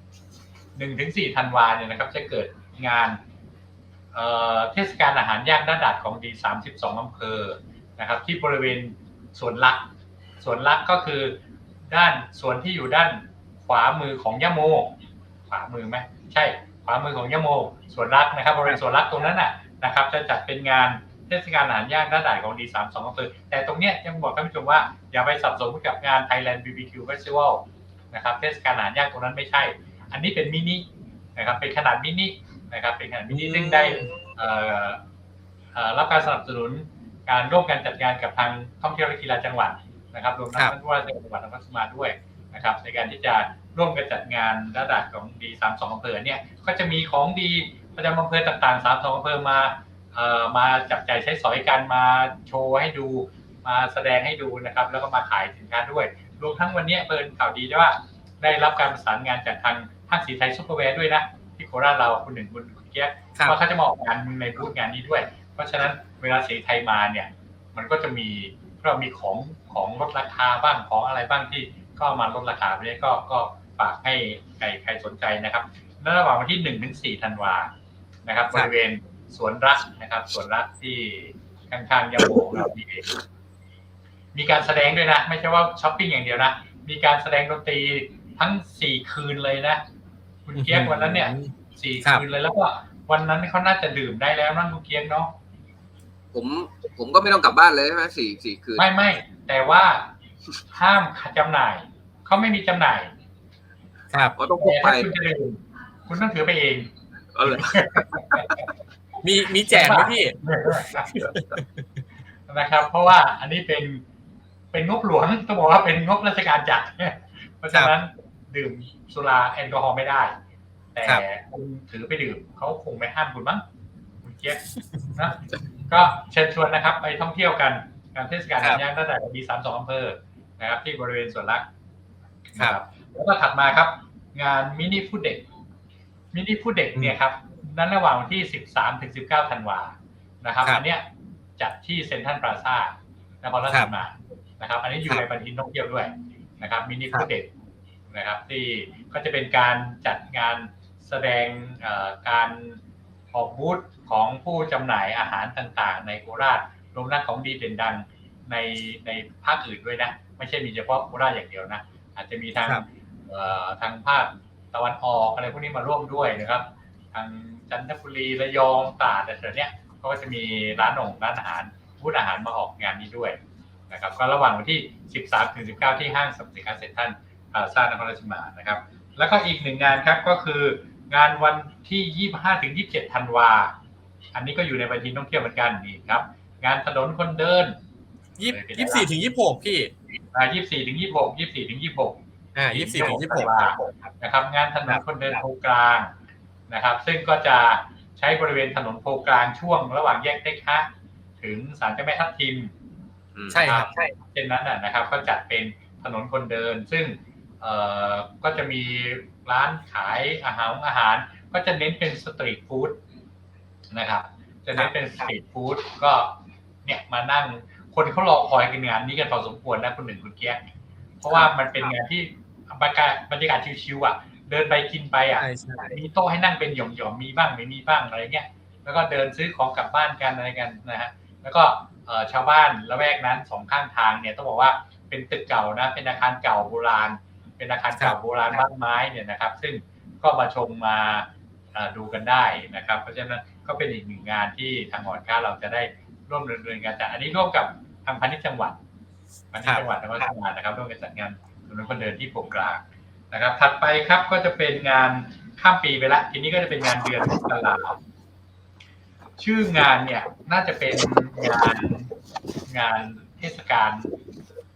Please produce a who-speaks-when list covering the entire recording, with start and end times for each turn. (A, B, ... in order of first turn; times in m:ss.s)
0:00.8-0:03.2 A
0:04.1-0:09.8 A
0:10.4-0:11.4 A
0:11.9-0:14.9 A
0:15.5-0:30.8 A
0:31.4-0:35.0 A
0:33.3-0:34.2 B
0:35.7-1:17.7 A
1:18.3-1:23.1 A
1:24.3-1:29.8 A
1:30.5-1:35.3 A
1:30.6-1:31.5 B
1:36.3-1:38.8 C
1:38.8-1:40.1 A
1:40.7-1:43.1 A
1:44.1-1:44.4 B
1:44.4-1:45.1 C
1:44.6-1:46.9 A
1:47.4-1:48.4 C
1:47.4-1:48.6 A
1:49.2-1:51.8 B
1:49.7-1:51.1 A
1:52.5-1:54.0 A
1:54.7-2:00.4 A
2:01.0-2:03.6 A
2:04.2-2:04.6 A
2:05.2-2:11.6 A
2:12.5-2:15.4 A
2:16.3-2:21.0 A
2:21.6-2:27.5 A
2:28.1-2:32.8 A
2:33.3-2:53.4 A
2:53.9-3:03.7 A
3:04.3-3:07.8 A
3:08.4-3:09.9 B
3:08.5-3:09.1 A
3:10.3-3:12.2 A
3:12.6-3:13.9 B
3:12.7-3:16.1 A
3:16.7-3:20.9 A
3:21.4-3:22.7 A
3:23.4-3:23.7 C
3:23.5-3:24.1 B
3:23.6-3:33.0 A
3:33.9-3:36.3 A
3:34.8-3:35.3 B
3:36.8-3:40.6 A
3:41.2-4:08.8 A
3:41.3-3:41.9 B
3:45.3-3:46.0 B
4:09.5-4:18.0 A
4:19.4-4:22.1 A
4:22.7-4:24.1 A